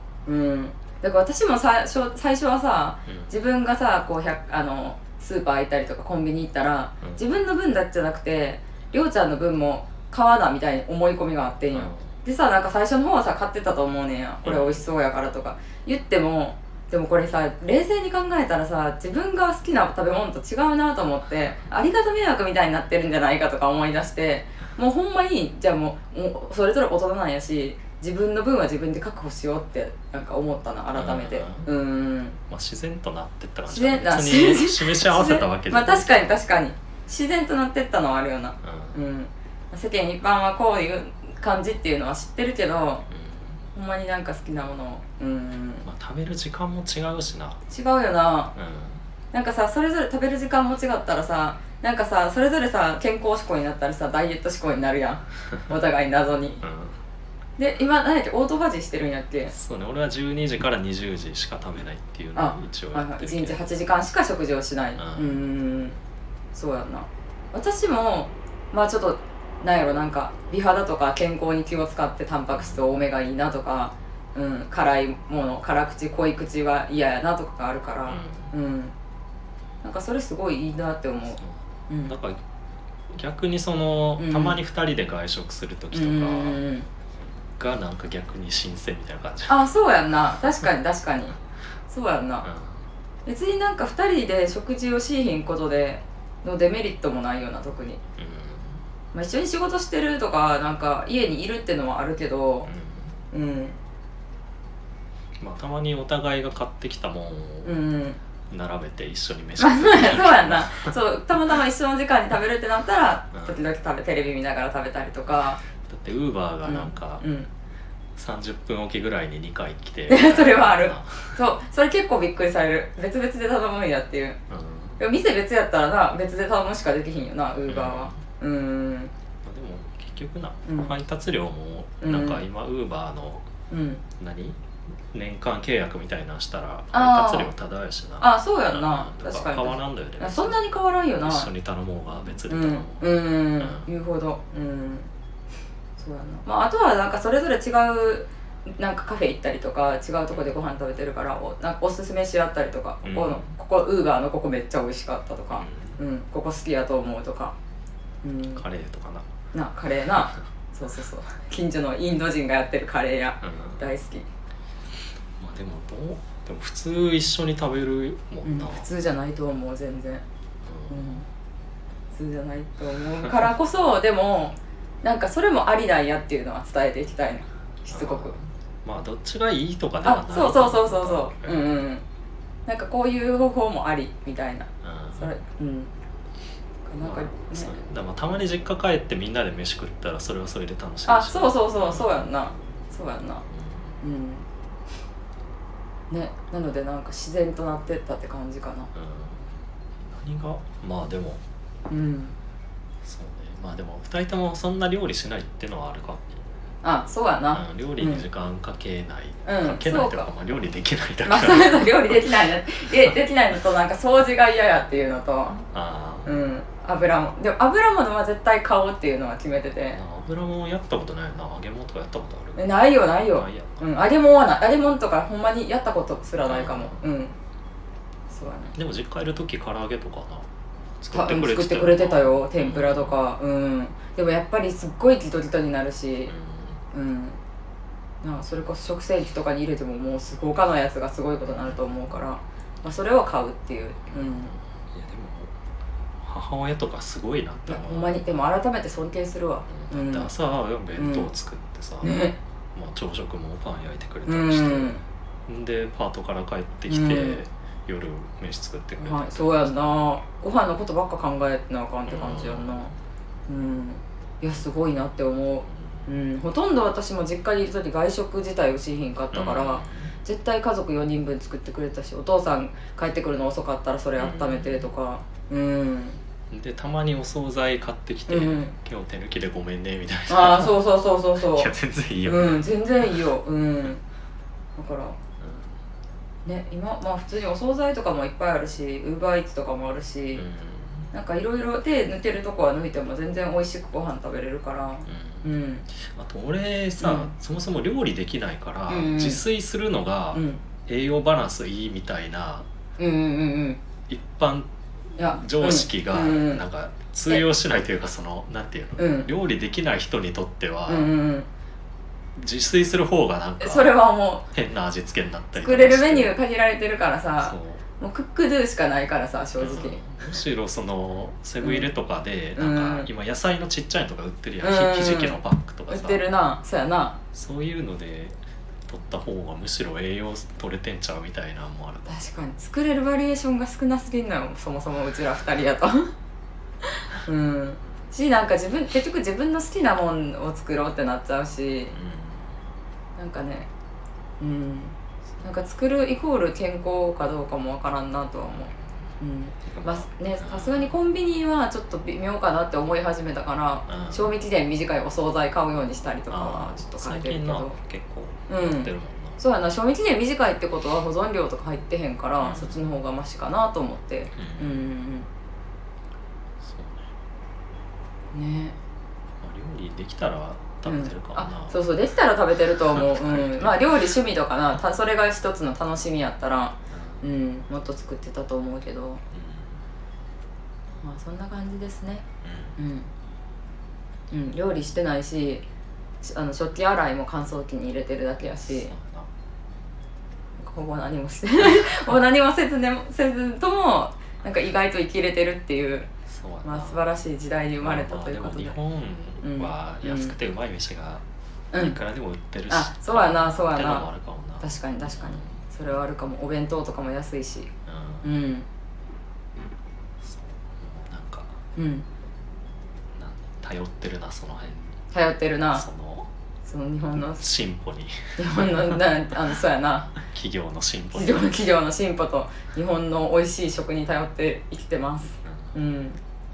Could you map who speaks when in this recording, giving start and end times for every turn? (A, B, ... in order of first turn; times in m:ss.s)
0:00.2-0:32.4 A
0:03.1-0:03.3 B
0:11.7-0:12.1 B
0:14.4-0:14.8 B
0:30.9-0:31.7 B
0:32.5-0:36.3 B
0:33.7-0:43.1 A
0:38.6-0:39.0 B
0:43.1-0:43.6 B
0:43.7-0:45.8 A
0:45.8-0:47.6 B
0:47.7-0:48.5 A
0:48.5-0:49.0 B
0:49.3-0:56.6 A
0:56.6-0:57.0 B
0:57.6-0:59.5 A
0:59.5-1:03.6 B
1:02.3-1:06.0 A
1:05.0-1:05.4 B
1:06.5-1:18.9 A
1:12.5-1:12.9 B
1:18.1-1:18.5 B
1:19.8-1:22.1 A
1:21.4-1:22.4 B
1:23.1-1:26.6 B
1:24.2-1:24.6 A
1:25.9-1:26.9 A
1:27.6-1:29.6 B
1:29.5-1:31.4 A
1:31.9-1:32.5 A
1:32.4-1:32.8 B
1:33.2-1:38.0 A
1:38.2-1:38.8 B
1:39.1-1:42.7 A
1:42.6-1:43.1 B
1:43.3-1:43.8 A
1:45.4-1:47.8 B
1:47.6-1:48.2 A
1:48.5-1:51.0 B
1:49.6-1:55.6 A
1:53.3-1:53.6 B
1:55.8-1:57.2 B
1:56.6-1:57.5 A
1:58.2-2:01.4 B
2:00.1-2:04.4 A
2:04.5-2:05.0 B
2:05.0-2:09.1 A
2:07.7-2:08.2 B
2:09.4-2:13.4 B
2:10.6-2:10.9 A
2:12.0-2:12.4 A
2:13.7-2:14.0 A
2:14.2-2:14.6 B
2:15.1-2:20.7 B
2:16.9-2:17.5 A
2:18.2-2:21.5 A
2:21.2-2:23.9 B
2:22.5-2:25.1 A
2:26.0-2:37.5 A
2:30.3-2:30.6 B
2:33.0-2:33.5 B
2:35.5-2:36.0 B
2:38.2-2:38.6 A
2:38.5-2:39.2 B
2:39.5-2:44.3 A
2:43.4-2:43.8 B
2:45.4-2:48.9 B
2:48.4-2:50.2 A
2:50.6-2:51.2 B
2:50.9-2:51.2 A
2:52.1-2:58.4 A
2:57.9-3:01.8 B
3:00.0-3:02.0 A
3:02.7-3:05.9 A
3:04.8-3:05.3 B
3:06.8-3:07.8 A
3:07.0-3:12.3 B
3:11.0-3:13.4 A
3:13.5-3:14.0 B
3:14.0-3:14.4 A
3:16.1-3:18.9 A
3:18.9-3:21.4 B
3:21.9-3:22.4 A
3:23.0-3:26.2 B
3:26.8-3:28.2 A
3:27.5-3:32.3 B
3:29.4-3:30.3 A
3:31.2-3:35.6 A
3:35.7-3:36.4 B
3:36.2-3:40.0 A
3:39.9-3:42.7 B
3:42.6-3:47.4 A
3:43.3-3:43.8 B
3:46.4-3:47.1 B
3:48.3-3:48.8 A
3:48.7-3:50.5 B
3:51.0-3:53.2 B
3:51.1-3:56.3 A
3:56.3-3:56.8 B
3:56.9-3:57.4 A
3:58.2-4:04.5 A
4:01.4-4:01.9 B
4:04.1-4:05.5 B
4:06.2-4:08.4 B
4:07.7-4:10.3 A
4:09.7-4:12.2 B
4:11.0-4:11.3 A
4:12.0-4:12.3 A
4:12.7-4:20.1 B
4:14.2-4:15.0 A
4:16.9-4:17.4 A
4:19.0-4:22.9 A
4:22.1-4:22.9 B
4:23.5-4:36.2 A
4:25.7-4:26.1 B
4:29.3-4:30.1 B
4:34.2-4:34.9 B
4:36.5-4:43.3 B
4:38.3-4:38.7 A
4:40.3-4:41.7 A
4:42.2-4:44.0 A
4:44.8-4:45.2 A
4:45.4-4:45.8 B
4:46.4-4:50.4 A
4:50.3-4:51.1 B
4:51.1-4:55.9 A
4:55.0-5:02.7 B
4:57.0-4:57.3 A
4:58.9-4:59.4 A
5:00.3-5:00.6 A
5:03.0-5:03.8 A
5:04.1-5:11.1 B
5:05.2-5:06.6 A
5:09.0-5:09.3 A
5:10.9-5:11.5 A
5:12.4-5:14.0 B
5:13.6-5:14.4 A
5:14.5-5:16.4 B
5:15.5-5:20.1 A
5:17.4-5:17.8 B
5:19.6-5:26.2 B
5:21.6-5:21.9 A
5:22.6-5:23.1 A
5:24.6-5:27.2 A
5:27.3-5:32.2 B
5:32.1-5:36.1 A
5:37.1-5:42.0 A
5:41.9-5:42.5 B
5:43.2-5:43.7 A
5:44.4-5:57.8 A
5:48.5-5:49.0 B
5:49.6-5:50.9 B
5:53.9-5:54.3 B
5:56.3-5:59.4 B
5:58.5-6:05.3 A
6:02.4-6:02.8 B
6:04.3-6:04.8 B
6:06.6-6:07.1 B
6:08.3-6:08.8 A
6:09.4-6:11.8 B
6:10.8-6:19.2 A
6:12.9-6:13.9 B
6:16.9-6:17.2 B
6:19.3-6:19.8 B
6:21.0-6:22.2 A
6:22.4-6:22.8 B
6:22.8-6:23.1 A
6:24.3-6:25.6 A
6:26.2-6:28.9 A
6:28.7-6:29.3 B
6:30.6-6:36.1 A
6:36.3-6:37.0 B
6:36.6-6:38.8 A
6:37.8-6:41.2 B
6:39.4-6:40.4 A
6:41.7-6:42.0 A
6:41.7-6:45.6 B
6:42.7-6:44.1 A
6:44.6-6:47.7 A
6:47.8-6:48.3 B
6:48.2-6:48.7 A
6:50.2-6:51.6 B
6:51.8-6:52.1 A
6:53.1-6:54.9 B
6:55.1-6:55.8 A
6:55.7-6:56.3 B
6:56.6-6:57.5 A
6:57.1-6:59.1 B
6:58.4-7:00.2 A
7:00.2-7:01.6 B
7:01.1-7:06.2 A
7:05.4-7:05.8 B